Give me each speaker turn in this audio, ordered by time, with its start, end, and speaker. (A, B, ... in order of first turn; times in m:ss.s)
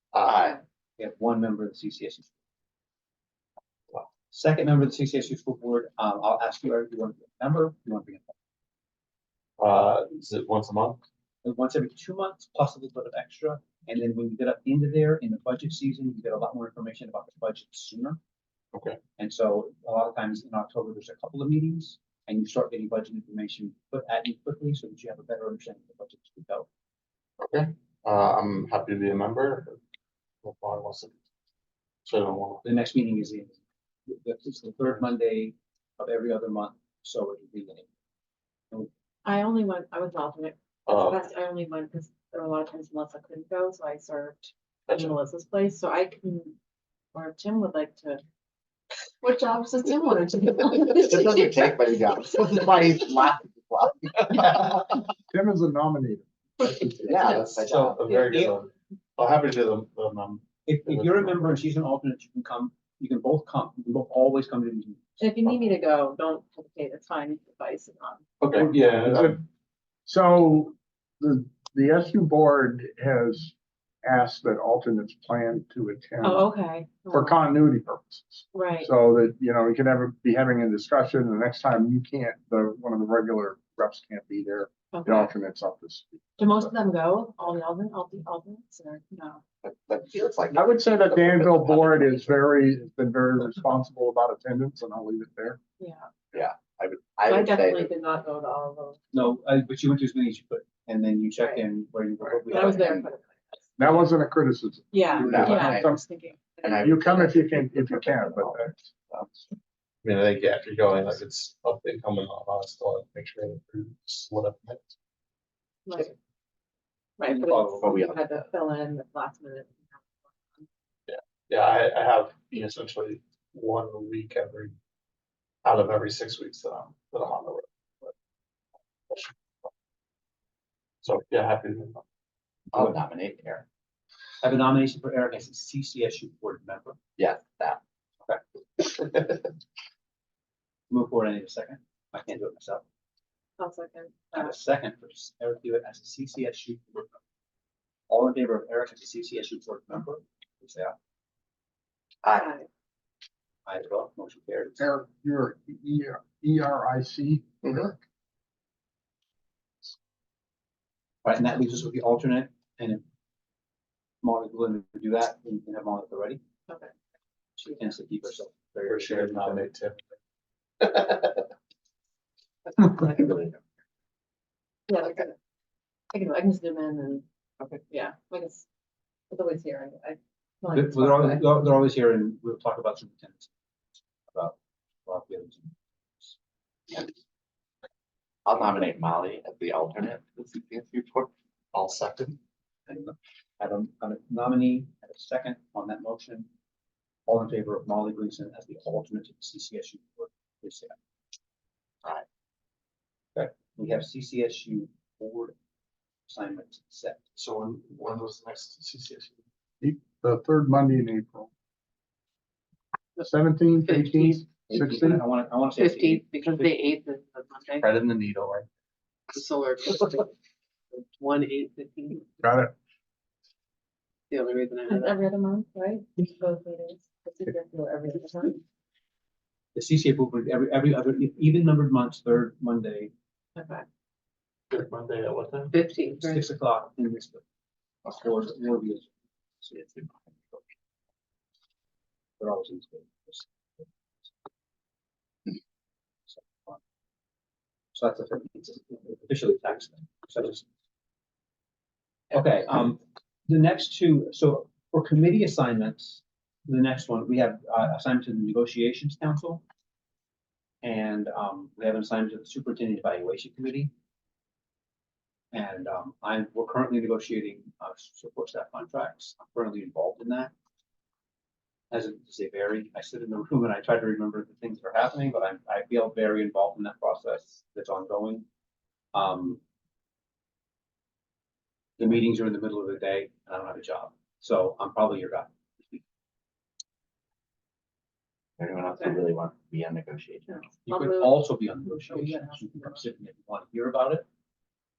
0:00.2-0:00.6 A
0:01.0-0:02.3 B
0:04.3-0:08.4 B
0:09.6-0:11.0 C
0:11.4-0:18.2 B
0:18.7-0:19.0 C
0:19.2-0:26.7 B
0:27.4-0:29.8 C
0:30.4-0:31.2 C
0:32.0-0:32.6 C
0:32.6-0:37.9 B
0:39.2-0:46.6 D
0:40.9-0:41.2 C
0:44.9-0:45.2 C
0:47.1-0:48.2 D
0:49.2-0:51.7 D
0:50.8-0:55.0 A
0:55.3-0:56.2 E
0:56.6-1:01.6 C
0:57.0-0:58.1 A
0:57.7-0:58.5 B
1:00.6-1:05.7 B
1:05.2-1:08.2 D
1:08.4-1:09.4 C
1:08.6-1:09.4 E
1:10.1-1:16.5 E
1:16.2-1:17.4 D
1:17.1-1:26.5 E
1:18.5-1:18.9 D
1:24.9-1:25.3 D
1:26.4-1:29.4 D
1:29.6-1:32.2 A
1:30.5-1:35.6 E
1:35.8-1:36.1 D
1:36.3-1:37.9 A
1:37.2-1:39.0 D
1:39.1-1:43.1 B
1:42.5-1:43.3 D
1:43.8-1:46.0 E
1:44.9-1:46.7 D
1:45.2-1:46.0 A
1:46.6-1:48.6 A
1:46.7-1:48.9 E
1:50.0-1:54.9 C
1:55.9-1:56.1 D
1:57.2-2:00.7 D
1:57.8-1:58.2 A
2:01.1-2:04.7 C
2:05.6-2:08.1 C
2:09.1-2:09.7 C
2:11.0-2:12.0 C
2:12.7-2:13.7 A
2:14.4-2:17.0 B
2:17.2-2:17.8 A
2:18.2-2:19.2 B
2:20.9-2:22.8 B
2:23.6-2:24.5 D
2:24.3-2:27.1 B
2:28.1-2:30.9 B
2:32.2-2:32.5 A
2:32.3-2:32.7 D
2:33.7-2:34.9 B
2:34.8-2:38.0 E
2:41.2-2:43.0 B
2:44.2-2:46.4 B
2:47.6-2:49.7 B
2:48.9-2:50.0 C
2:50.8-2:51.4 C
2:53.0-2:53.6 A
2:54.9-2:55.3 D
2:56.1-2:57.2 D
2:57.9-2:58.6 D
2:59.3-3:01.5 D
3:00.7-3:03.5 B
3:04.3-3:06.3 B
3:08.5-3:11.3 A
3:11.7-3:12.4 C
3:12.9-3:16.5 B
3:17.3-3:21.0 B
3:23.3-3:25.6 B
3:26.3-3:27.2 B
3:27.3-3:29.4 C
3:29.8-3:31.5 E
3:33.2-3:35.2 E
3:33.9-3:34.4 F
3:34.7-3:36.6 B
3:35.8-3:37.9 F
3:37.8-3:38.7 C
3:39.3-3:40.3 F
3:40.9-3:42.4 F
3:42.4-3:42.7 E
3:44.3-3:45.2 F
3:44.9-3:48.6 D
3:49.8-3:53.1 B
3:53.6-3:53.9 D
3:54.7-3:55.8 C
3:55.7-3:56.4 F
3:56.2-3:57.4 B
3:58.1-3:59.1 B
3:59.7-4:00.6 A
4:02.4-4:03.5 B
4:06.3-4:06.8 B
4:07.9-4:10.6 B
4:12.3-4:19.6 B
4:20.8-4:23.9 B
4:25.5-4:30.5 B
4:31.9-4:38.5 B
4:39.1-4:39.6 B
4:42.0-4:45.5 B
4:48.6-4:50.6 A
4:50.5-4:51.4 D
4:50.8-4:54.2 B
4:52.1-4:52.9 D